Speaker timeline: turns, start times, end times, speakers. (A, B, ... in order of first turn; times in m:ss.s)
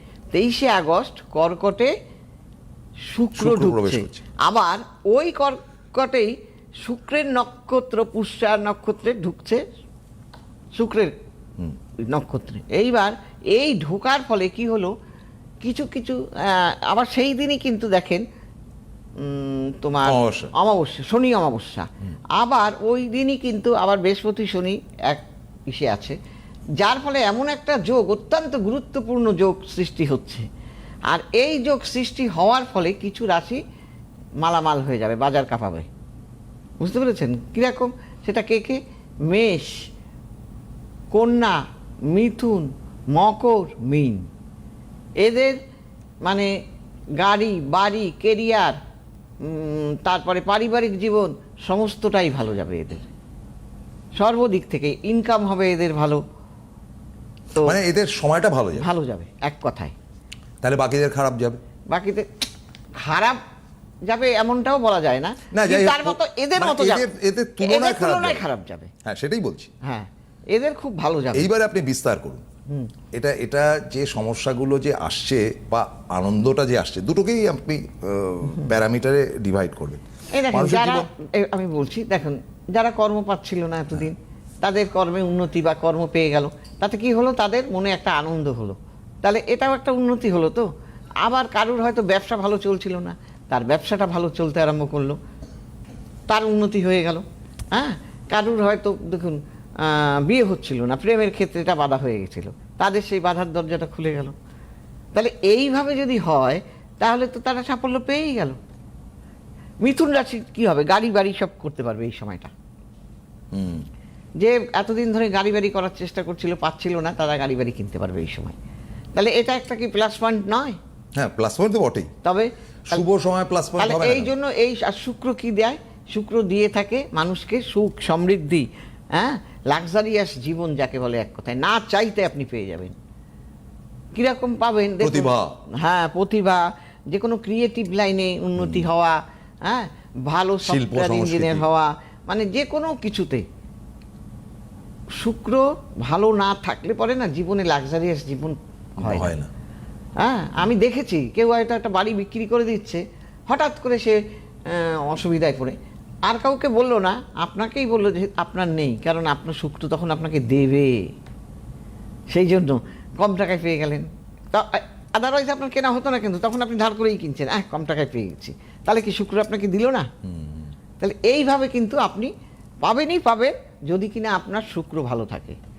0:00.3-0:01.9 A
0:03.1-0:09.6 A
0:03.4-0:04.2 B
0:10.8-0:11.1 A
0:12.1-0:14.9 A
0:15.6-0:18.2 A
0:19.2-0:26.2 A
0:20.1-0:20.5 B
0:26.8-0:30.4 A
0:31.1-0:33.6 A
0:34.4-0:35.9 A
0:36.8-0:39.8 A
0:41.1-0:41.6 A
0:42.1-0:44.3 A
0:45.2-0:45.6 A
0:46.2-0:46.5 A
0:47.2-0:48.8 A
0:49.4-0:53.1 A
0:54.2-0:56.2 A
0:57.6-0:58.9 B
0:58.7-0:59.9 A
1:00.6-1:01.6 B
1:01.9-1:02.3 A
1:03.0-1:03.4 A
1:04.1-1:07.1 A
1:05.5-1:08.4 B
1:07.6-1:08.9 A
1:09.0-1:09.7 B
1:09.8-1:11.5 A
1:11.3-1:12.4 B
1:13.1-1:21.1 B
1:20.3-1:30.7 A
1:31.2-1:35.2 A
1:36.3-1:44.3 A
1:45.1-1:48.6 A
1:49.8-1:52.5 A
1:53.5-1:53.8 B
1:54.4-1:58.6 A
1:59.2-2:00.8 A
2:01.2-2:02.1 B
2:02.2-2:03.0 A
2:02.9-2:04.3 B
2:03.8-2:12.9 A
2:14.2-2:23.4 A
2:15.0-2:15.5 B
2:18.6-2:18.9 B
2:20.6-2:21.6 B
2:25.2-2:29.3 A
2:29.0-2:29.5 B
2:30.2-2:41.1 A
2:42.3-2:50.1 A
2:50.2-2:50.7 B
2:51.0-2:52.3 A
2:52.8-2:55.6 A